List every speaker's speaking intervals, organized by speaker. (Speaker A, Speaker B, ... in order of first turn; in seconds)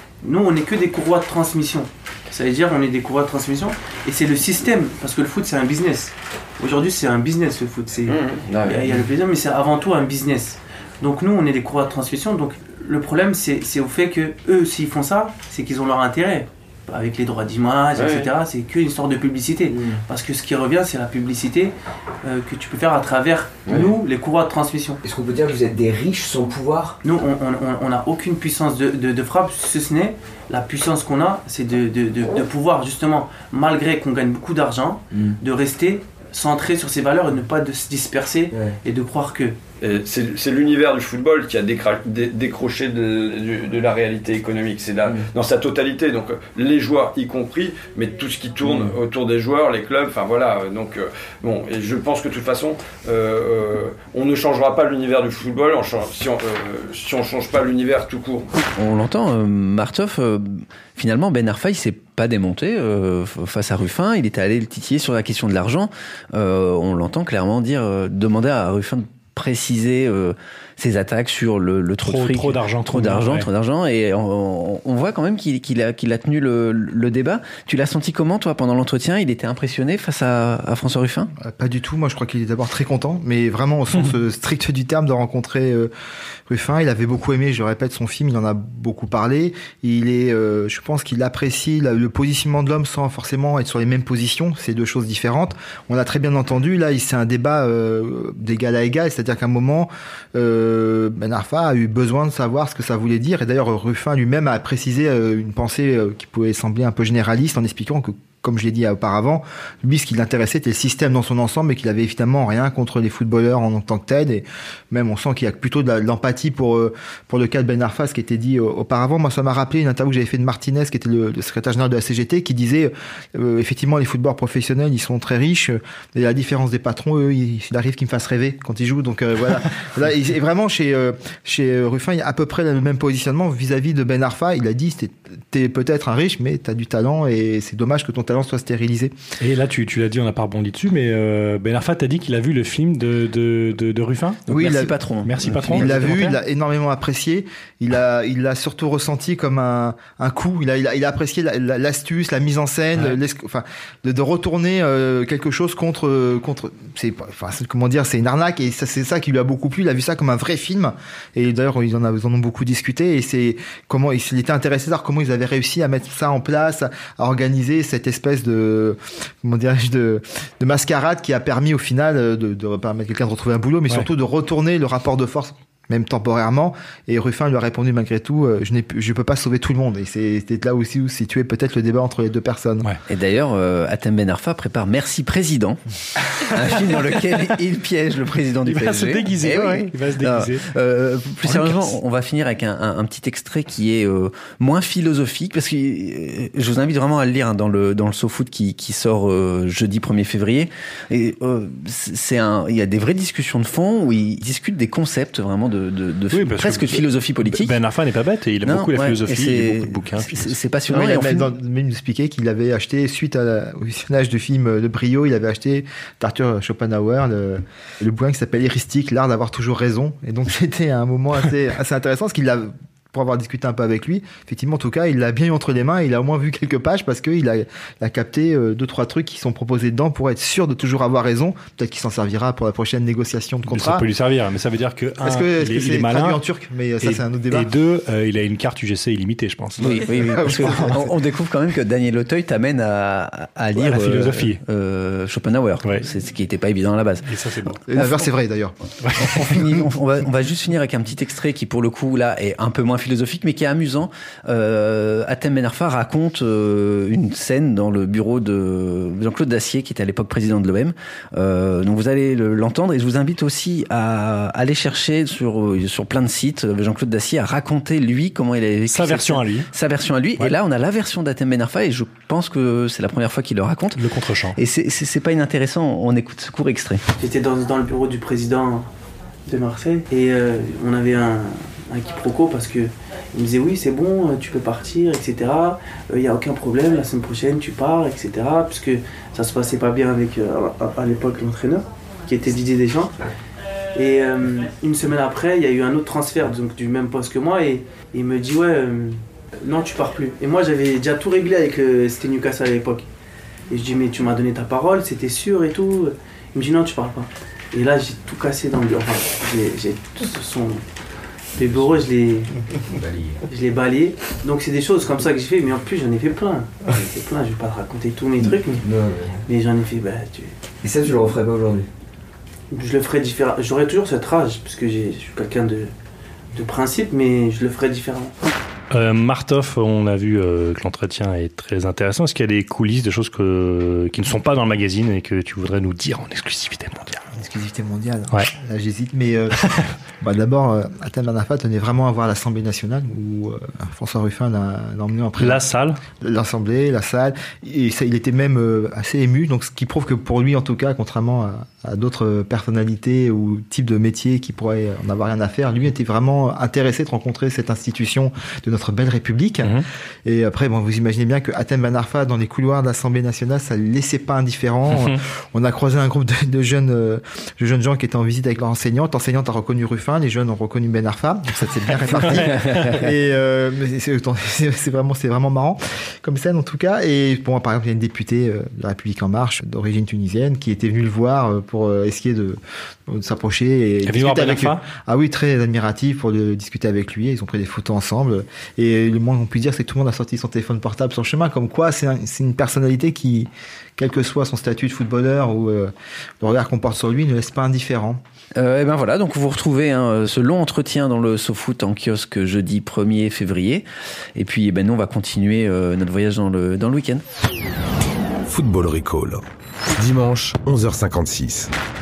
Speaker A: 0.2-25.0, 27.0-39.6, 277.2-278.9, 279.4-293.1, 293.9-303.1, 303.7-310.8, 311.6-312.5, 313.4-318.9, 319.4-320.6, 322.7-325.9, 326.5-328.3
Speaker B: 8.1-8.4, 17.9-18.3, 39.8-58.5
Speaker C: 8.5-9.1, 19.7-20.0, 23.7-23.9, 25.0-27.0, 48.6-48.9, 312.9-313.4, 318.8-319.4, 320.8-321.9
Speaker D: 58.8-81.3, 144.5-146.1, 183.1-185.8, 186.4-207.8, 208.6-211.5, 239.8-247.3, 247.9-248.2, 249.2-277.0, 398.6-407.2
Speaker E: 72.0-73.5, 139.4-144.5, 145.2-146.4, 188.6-190.7, 191.4-191.9, 206.3-210.6, 233.7-236.4, 237.0-240.8, 243.7-244.6, 245.8-246.1, 247.2-247.8, 249.0-249.5, 268.9-269.7, 273.9-274.6, 328.9-337.2, 345.4-346.0, 364.9-365.2, 372.4-372.9, 384.1-384.9
Speaker F: 81.4-85.9, 86.5-139.1, 144.5-182.9, 210.9-234.1, 235.2-237.7, 239.9-241.1, 247.9-248.8, 337.4-339.6, 340.2-398.2
Speaker G: 408.4-409.4, 409.9-411.7